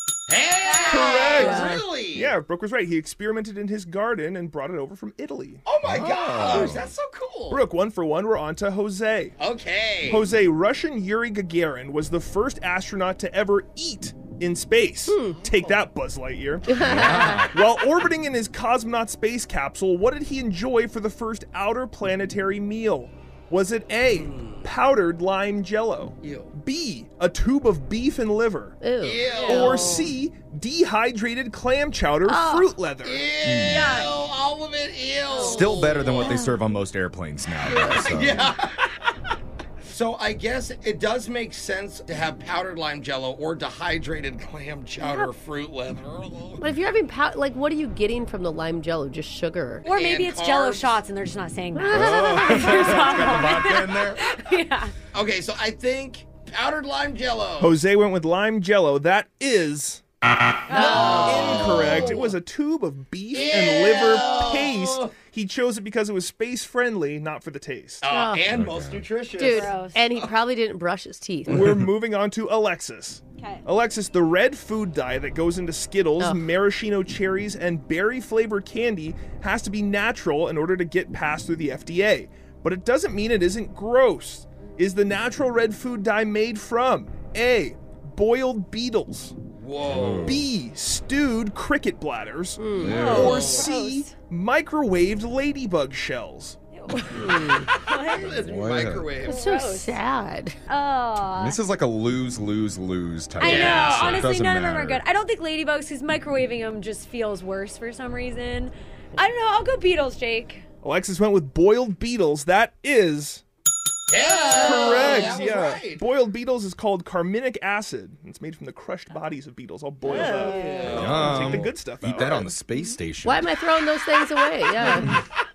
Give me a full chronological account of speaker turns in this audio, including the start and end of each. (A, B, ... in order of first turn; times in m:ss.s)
0:00.3-0:02.3 A
0:00.7-0:01.2 B
0:00.8-0:05.6 C
0:01.3-0:01.8 D
0:05.6-0:07.6 A
0:05.8-0:06.9 E
0:07.5-0:09.3 C
0:09.4-0:10.3 A
0:10.1-0:28.8 C
0:15.1-0:15.4 D
0:16.7-0:17.5 D
0:16.8-0:17.6 E
0:24.1-0:24.7 A
0:26.2-0:26.5 A
0:28.8-0:30.0 D
0:29.0-0:30.0 A
0:29.3-0:29.8 B
0:29.5-0:33.3 C
0:32.3-0:32.7 D
0:33.0-0:36.4 A
0:33.4-0:34.0 E
0:35.4-0:38.5 E
0:36.1-0:36.6 D
0:37.8-0:38.8 A
0:39.9-0:46.6 A
0:45.0-0:45.3 D
0:46.6-0:49.9 D
0:49.8-0:50.9 A
0:49.8-0:54.9 B
0:51.8-0:53.1 D
0:51.9-0:54.3 E
0:55.1-0:57.8 A
0:57.6-1:00.0 C
1:00.7-1:02.0 D
1:00.7-1:02.3 A
1:00.7-1:01.2 B
1:01.0-1:08.0 C
1:03.3-1:05.2 A
1:08.0-1:10.3 A
1:08.1-1:08.5 D
1:08.5-1:09.1 E
1:09.4-1:11.6 D
1:09.4-1:10.0 B
1:11.5-1:29.4 C
1:13.4-1:13.6 B
1:29.6-1:30.4 A
1:29.8-1:30.4 E
1:30.2-1:36.6 C
1:32.6-1:33.8 D
1:32.8-1:34.1 B
1:32.8-1:33.4 E
1:32.9-1:33.7 A
1:36.8-1:37.2 B
1:37.1-1:37.7 D
1:37.8-1:38.4 B
1:37.9-1:39.4 A
1:38.4-1:39.1 E
1:39.2-1:39.9 B
1:39.3-1:40.6 D
1:40.7-1:41.6 B
1:41.4-1:45.0 E
1:43.4-1:50.6 B
1:43.4-1:44.3 A
1:50.8-1:53.4 C
1:54.1-1:56.0 A
1:54.4-2:02.5 C
1:54.6-1:55.4 D
2:00.0-2:01.1 D
2:00.2-2:01.6 A
2:00.9-2:03.6 E
2:03.2-2:05.1 D